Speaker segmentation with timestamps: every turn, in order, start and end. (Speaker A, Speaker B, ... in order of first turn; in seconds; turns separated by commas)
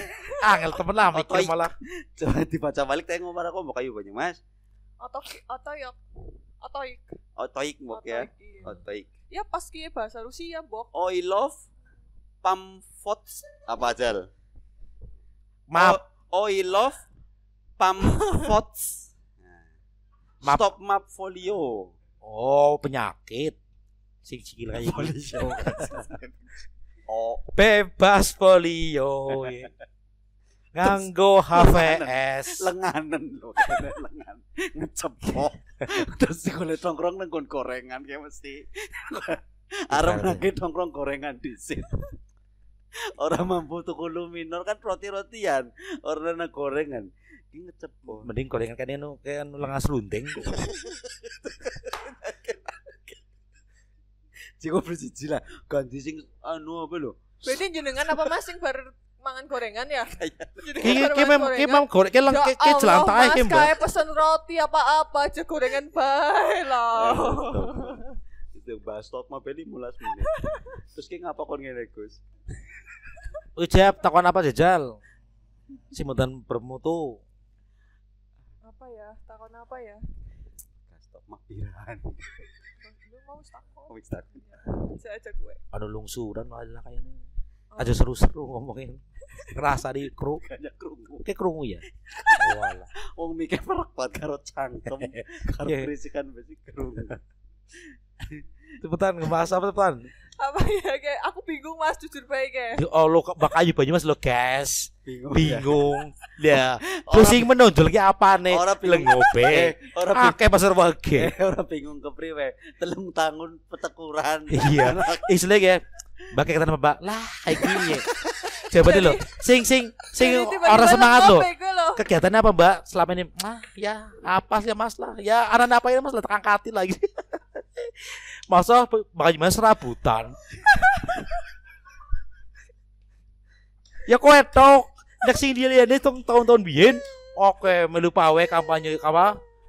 Speaker A: 0.4-1.7, Speaker B: 1.1-4.4, Speaker C: 5.0-6.0, Speaker C: 6.6-7.2, Speaker B: 7.3-9.1, Speaker C: 7.9-8.7, Speaker C: 9.3-10.9, Speaker B: 10.9-11.6, Speaker B: 12.4-14.3, Speaker A: 15.7-16.0, Speaker B: 15.7-17.0, Speaker B: 17.8-19.7, Speaker B: 20.4-21.9, Speaker A: 22.2-23.6, Speaker A: 24.2-26.1, Speaker B: 24.7-26.4, Speaker B: 27.1-27.4, Speaker A: 27.5-29.7, Speaker B: 29.4-29.6, Speaker A: 30.7-32.7, Speaker B: 30.8-42.1, Speaker A: 39.9-40.5, Speaker B: 43.0-48.3, Speaker A: 48.2-50.6, Speaker B: 50.6-53.1, Speaker B: 54.6-57.4, Speaker C: 57.4-68.2, Speaker B: 60.2-60.9, Speaker A: 60.8-63.7, Speaker B: 66.9-68.0, Speaker B: 68.5-72.2, Speaker C: 70.3-70.6, Speaker A: 73.5-75.0, Speaker A: 75.9-77.2, Speaker C: 78.6-80.0, Speaker B: 80.9-82.4, Speaker C: 82.8-83.9, Speaker B: 83.9-84.7, Speaker C: 84.5-85.6, Speaker A: 85.7-87.2, Speaker C: 87.7-88.0, Speaker A: 87.8-90.4, Speaker B: 90.4-91.2, Speaker A: 91.2-92.9, Speaker B: 92.1-92.5, Speaker B: 93.1-97.2, Speaker A: 94.8-95.9, Speaker A: 98.8-100.1, Speaker C: 100.4-102.8, Speaker A: 102.8-111.3, Speaker B: 105.0-105.9, Speaker B: 107.0-107.5, Speaker B: 108.5-110.4, Speaker B: 111.1-115.3, Speaker A: 114.5-118.1, Speaker B: 117.6-118.6, Speaker A: 118.7-130.4, Speaker C: 118.8-119.3, Speaker C: 120.1-122.0, Speaker A: 134.1-139.4